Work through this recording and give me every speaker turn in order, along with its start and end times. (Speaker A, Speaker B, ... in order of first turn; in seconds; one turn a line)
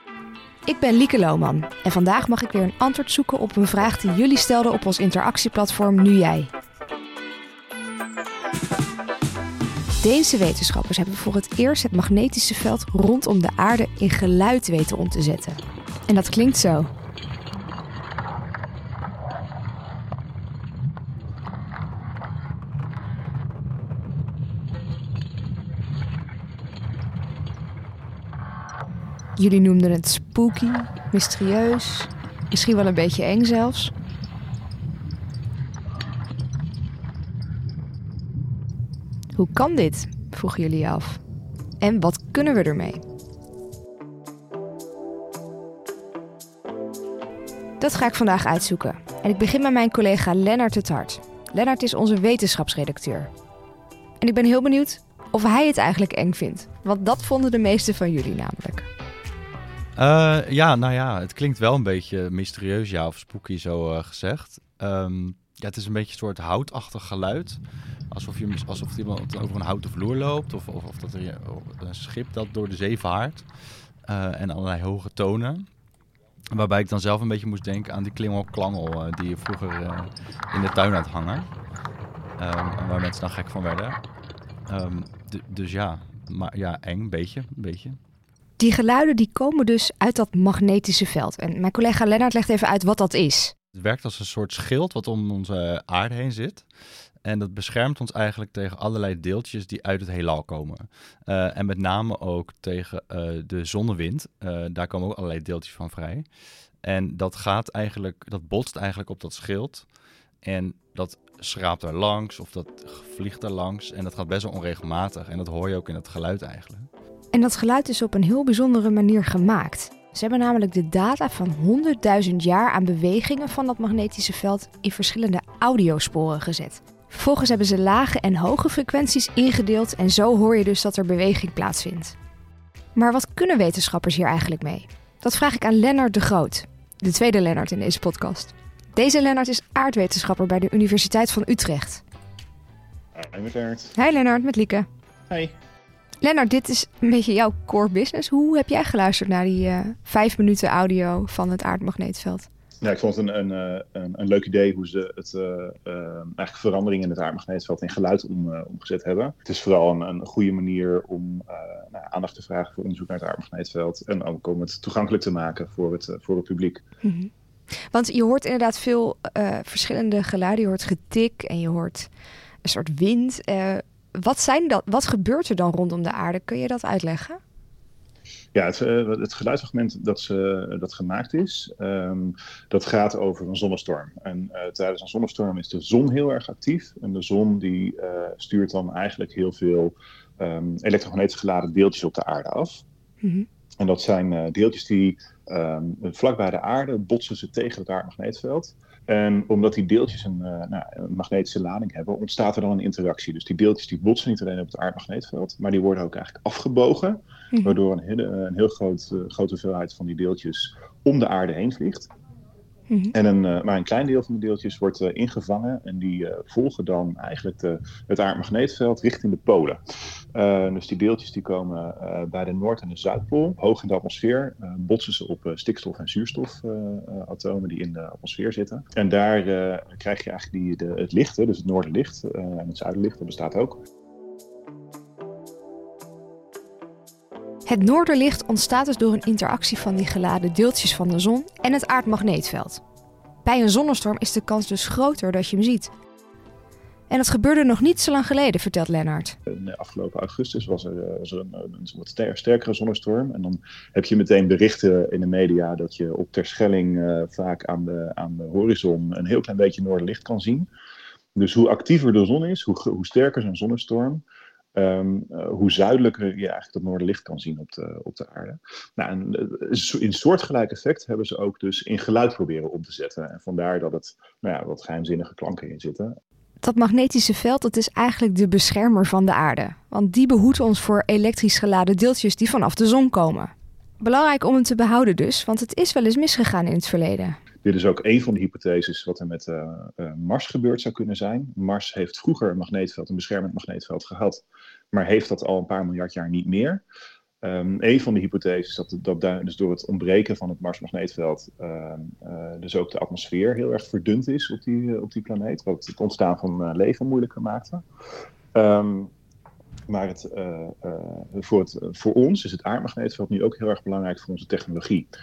Speaker A: 0.7-6.5
Speaker A: 10.0-16.9
Speaker A: 29.4-33.9
Speaker A: 39.3-41.2
Speaker A: 41.8-43.0
Speaker A: 47.8-53.3
Speaker A: 54.2-58.9
Speaker B: 60.0-73.5
Speaker B: 74.0-75.7
Speaker B: 76.5-81.5
Speaker B: 82.4-84.0
Speaker B: 84.7-88.0
Speaker A: 88.6-93.5
Speaker B: 93.7-96.7
Speaker B: 97.2-106.2
Speaker B: 106.8-109.9
Speaker B: 110.4-116.9
Speaker A: 117.3-132.2
Speaker A: 132.9-142.0
Speaker C: 143.1-143.9
Speaker A: 143.9-144.9
Speaker A: 146.2-152.5
Speaker C: 152.8-166.8
Speaker A: 167.0-167.3
Speaker A: 167.9-172.1
Speaker A: 172.6-177.4
Speaker C: 178.5-192.8
Speaker A: 193.2-193.5
Speaker C: 193.8-212.1
Speaker A: 212.9-213.1
Speaker C: 213.1-219.8
Speaker C: 220.3-233.8
Speaker A: 237.7-242.8
Speaker A: 243.4-245.9
Speaker A: 247.1-249.3
Speaker C: 249.5-260.7
Speaker C: 261.4-264.2
Speaker C: 264.7-276.1
Speaker A: 276.6-287.4
Speaker C: 287.6-296.8
Speaker C: 297.4-307.8
Speaker C: 308.5-309.1
Speaker C: 309.9-315.1